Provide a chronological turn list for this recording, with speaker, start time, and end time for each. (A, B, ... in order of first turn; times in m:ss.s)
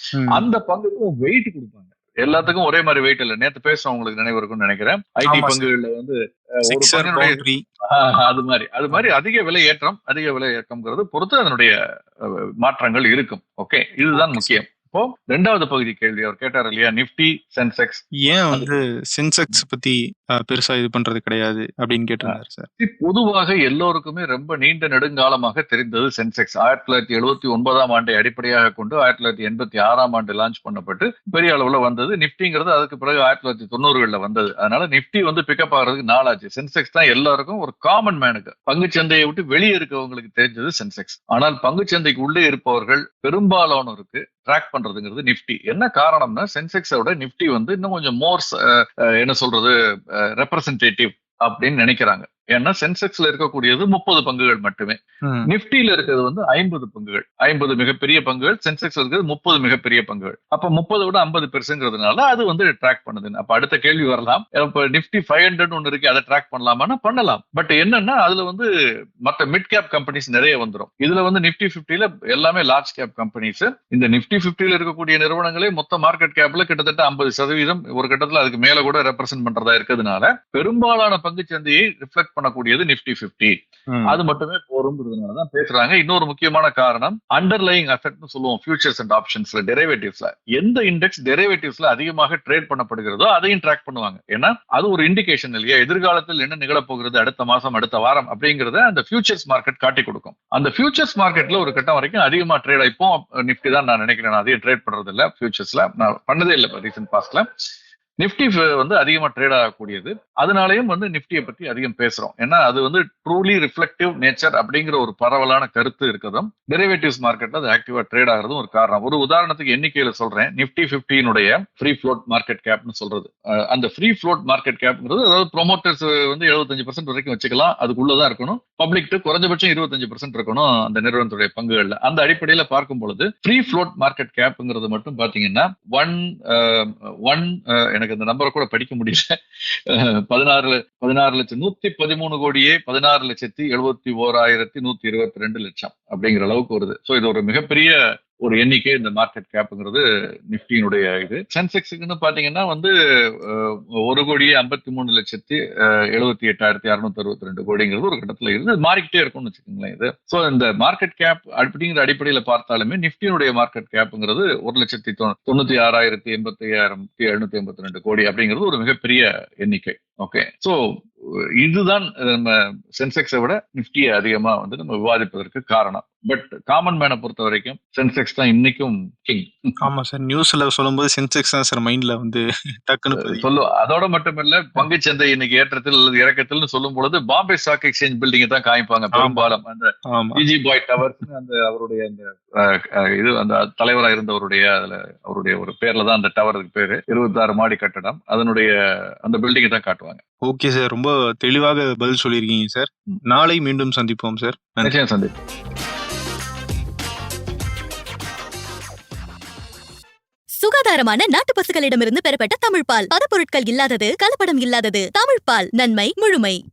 0:00.2-0:00.4 A
0:00.3-0:11.7 B
0:05.3-0:05.7 A
0:06.7-0:07.6 A
0:12.6-0:18.7 B
0:14.1-0:14.6 A
0:18.3-0:22.7 A
0:22.2-0:49.7 B
0:50.4-1:08.7 B
1:09.2-1:23.6 B
1:23.9-1:24.2 A
1:24.1-1:47.4 B
1:48.2-2:19.4 B
2:19.9-2:32.9 B
2:33.4-2:35.6 B
2:36.1-2:51.0 B
2:51.6-2:59.7 B
2:59.8-3:03.4 A
3:03.2-3:18.7 B
3:09.2-3:09.5 A
3:10.1-3:10.4 A
3:19.2-3:20.2 B
3:20.4-3:24.9 A
3:24.8-3:25.3 B
3:30.6-3:36.6 C